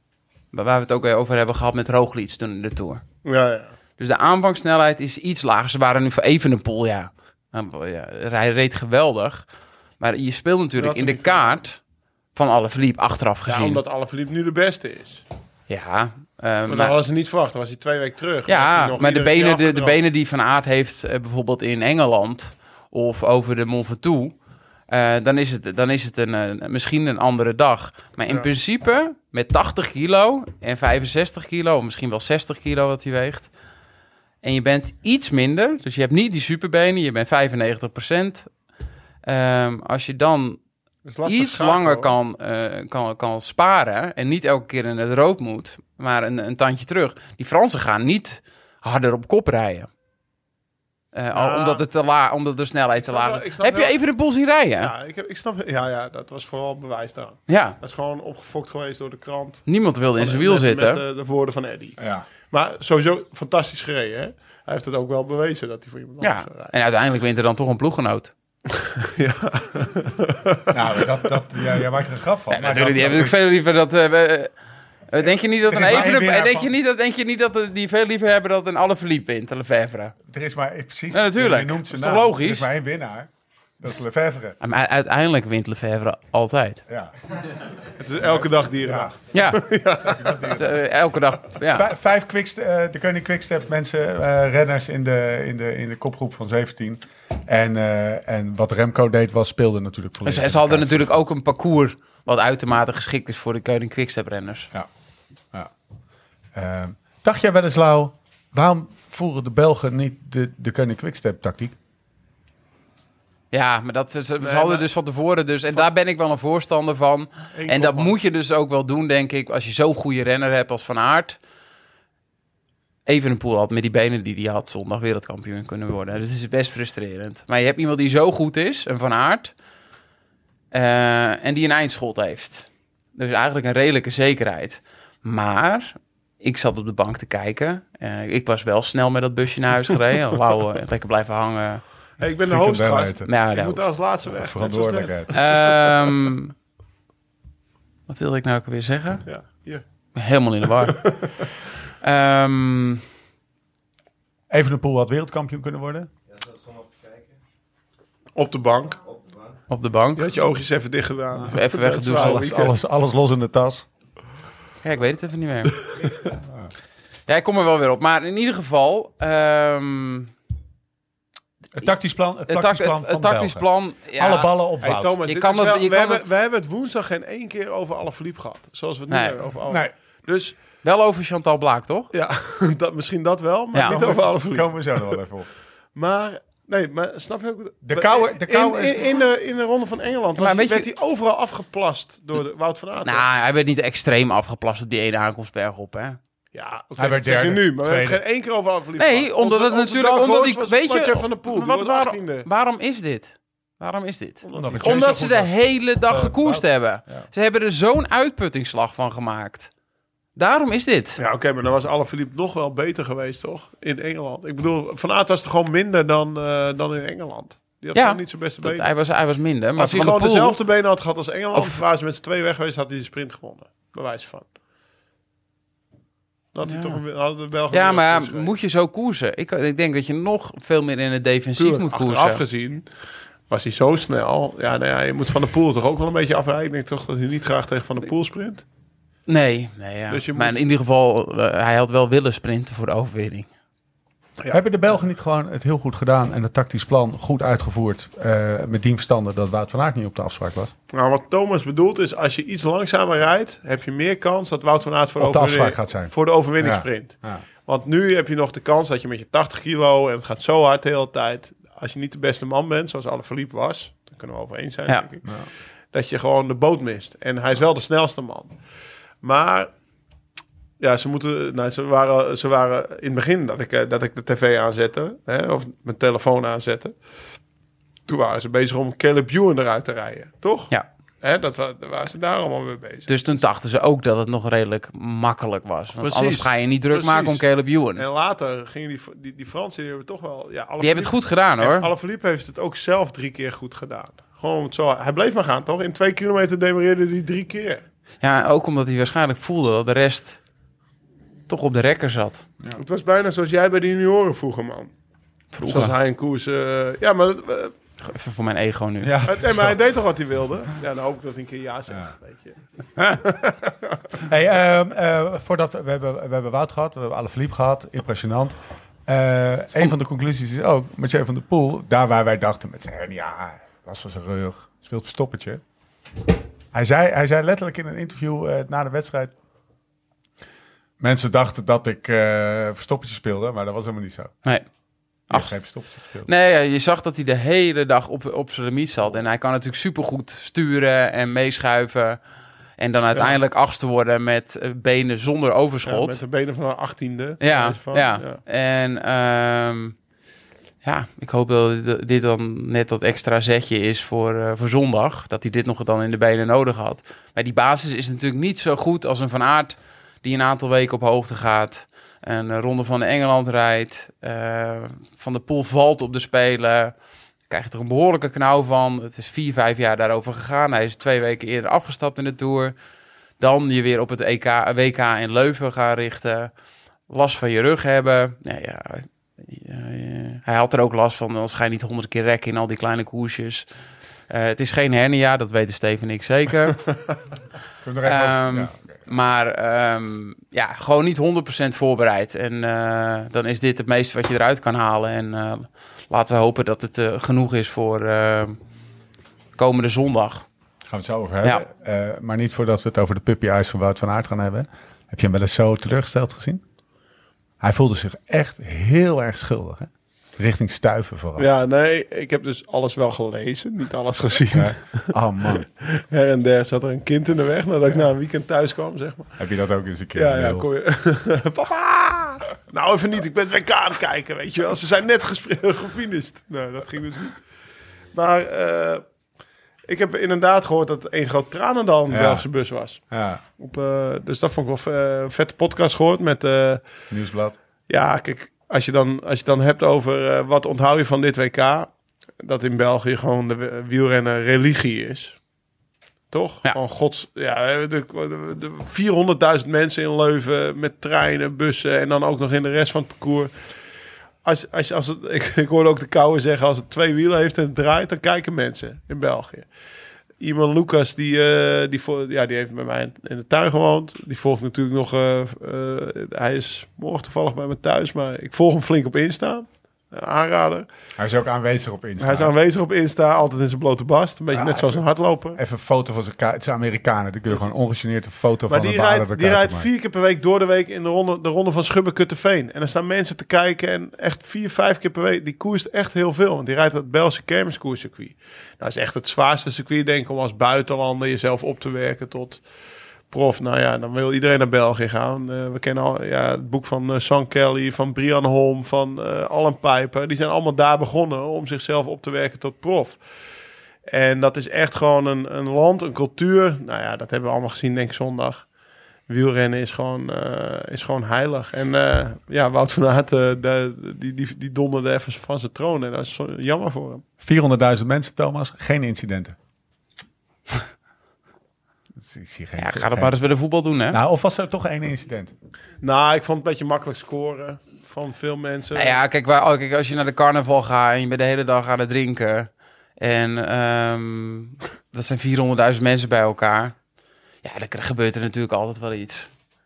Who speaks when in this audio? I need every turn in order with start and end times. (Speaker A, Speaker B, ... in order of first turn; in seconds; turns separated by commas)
Speaker A: 0.5-3.0, Speaker B: 3.2-3.7, Speaker A: 4.0-9.4, Speaker A: 10.0-11.8, Speaker B: 10.8-11.6, Speaker A: 12.3-13.8, Speaker B: 13.5-15.2, Speaker A: 15.7-17.0, Speaker B: 16.7-20.0, Speaker A: 18.5-24.3, Speaker A: 24.9-33.5, Speaker A: 34.4-38.5, Speaker A: 39.2-40.6, Speaker B: 41.0-42.1, Speaker A: 41.2-49.9, Speaker A: 51.1-54.9, Speaker B: 51.3-51.8, Speaker B: 53.0-54.0, Speaker B: 54.8-59.6, Speaker A: 57.5-57.8, Speaker A: 59.6-61.0, Speaker B: 60.2-62.0, Speaker C: 62.0-62.2, Speaker B: 62.5-66.7, Speaker A: 66.2-68.3, Speaker B: 68.7-70.7, Speaker C: 70.7-73.3, Speaker A: 72.5-74.5, Speaker A: 75.1-80.1, Speaker C: 75.7-76.7, Speaker C: 80.3-83.3, Speaker A: 81.1-82.7, Speaker C: 83.8-84.6, Speaker A: 84.6-86.8, Speaker B: 88.0-90.6, Speaker C: 88.2-89.2, Speaker A: 89.3-89.7, Speaker C: 90.0-90.8, Speaker A: 90.5-91.9, Speaker C: 91.7-101.2, Speaker A: 100.2-104.7, Speaker C: 106.5-111.8, Speaker A: 113.5-121.4, Speaker B: 114.4-114.8, Speaker B: 117.5-118.1, Speaker A: 123.0-129.5, Speaker A: 130.7-141.8, Speaker B: 142.2-146.3, Speaker C: 142.4-143.3, Speaker A: 143.2-143.8, Speaker C: 144.3-145.4, Speaker A: 145.3-146.5, Speaker A: 148.1-149.3, Speaker B: 149.2-149.8, Speaker A: 150.1-151.1, Speaker B: 150.8-151.4, Speaker A: 152.0-153.0, Speaker C: 154.5-156.1, Speaker B: 158.3-159.0, Speaker A: 159.7-160.3, Speaker B: 160.2-162.7, Speaker A: 161.5-162.4, Speaker C: 162.0-163.8, Speaker A: 164.8-165.8, Speaker A: 167.3-170.3, Speaker C: 171.7-175.2, Speaker A: 172.5-174.5, Speaker B: 174.8-180.6, Speaker A: 175.2-176.2, Speaker A: 179.1-179.4, Speaker C: 179.7-179.9, Speaker A: 180.8-182.1, Speaker B: 182.1-185.2, Speaker A: 183.7-184.2, Speaker C: 183.9-185.5, Speaker B: 185.9-193.2, Speaker C: 187.8-189.1, Speaker A: 190.3-190.9, Speaker A: 193.0-196.2, Speaker B: 196.5-202.5, Speaker C: 197.0-198.2, Speaker A: 199.0-209.7, Speaker B: 204.4-205.1, Speaker C: 204.5-205.5, Speaker C: 206.1-207.3, Speaker A: 210.3-211.2, Speaker B: 211.2-218.9, Speaker A: 217.9-220.6, Speaker B: 219.8-224.4, Speaker A: 221.5-221.8, Speaker B: 226.5-228.5, Speaker A: 226.6-227.0, Speaker A: 227.7-232.4, Speaker B: 231.6-232.9, Speaker B: 233.5-238.6, Speaker A: 239.3-243.5, Speaker B: 240.1-240.6, Speaker C: 244.5-250.7, Speaker B: 250.9-265.3, Speaker C: 255.2-257.4, Speaker C: 265.2-265.5, Speaker B: 265.9-268.5, Speaker B: 269.2-269.7, Speaker B: 270.8-276.9, Speaker B: 278.1-283.1, Speaker A: 283.1-288.0, Speaker B: 286.0-287.4, Speaker B: 287.9-297.8, Speaker A: 290.8-291.9, Speaker A: 298.2-300.4, Speaker A: 301.5-302.4, Speaker B: 302.8-304.9, Speaker A: 305.5-305.9, Speaker B: 305.6-307.7, Speaker A: 308.0-309.1, Speaker C: 309.0-309.8, Speaker B: 309.2-314.0, Speaker C: 314.2-325.6, Speaker C: 326.7-329.3, Speaker C: 331.0-334.3, Speaker A: 335.3-335.6, Speaker C: 335.3-336.3, Speaker A: 336.2-342.2, Speaker A: 342.8-346.2, Speaker B: 345.8-348.4, Speaker A: 347.4-349.9, Speaker A: 350.8-366.9, Speaker A: 367.5-372.7, Speaker A: 373.4-376.5, Speaker A: 377.1-383.7, Speaker A: 384.3-386.9, Speaker C: 387.8-389.0, Speaker A: 388.0-398.6, Speaker A: 399.6-400.4, Speaker C: 400.9-406.6, Speaker C: 407.6-411.4, Speaker B: 411.4-415.1, Speaker C: 414.5-415.7, Speaker B: 415.6-419.4, Speaker C: 419.4-420.6, Speaker B: 420.1-427.4, Speaker B: 428.1-429.0, Speaker B: 429.9-433.0, Speaker C: 432.1-432.4, Speaker C: 433.1-433.4, Speaker B: 433.6-436.8, Speaker C: 437.1-437.6, Speaker B: 437.9-445.4, Speaker B: 446.3-453.5, Speaker B: 454.4-459.7, Speaker B: 460.4-470.9, Speaker C: 471.2-472.5, Speaker B: 472.2-475.6, Speaker C: 474.5-475.0, Speaker C: 475.5-479.9, Speaker B: 478.7-492.6, Speaker B: 493.3-503.2, Speaker B: 504.1-508.7, Speaker B: 509.3-517.2, Speaker C: 517.4-519.5, Speaker C: 522.2-523.4, Speaker A: 522.8-524.2, Speaker C: 524.1-525.5, Speaker B: 526.0-529.1, Speaker A: 528.9-536.9, Speaker A: 537.6-539.5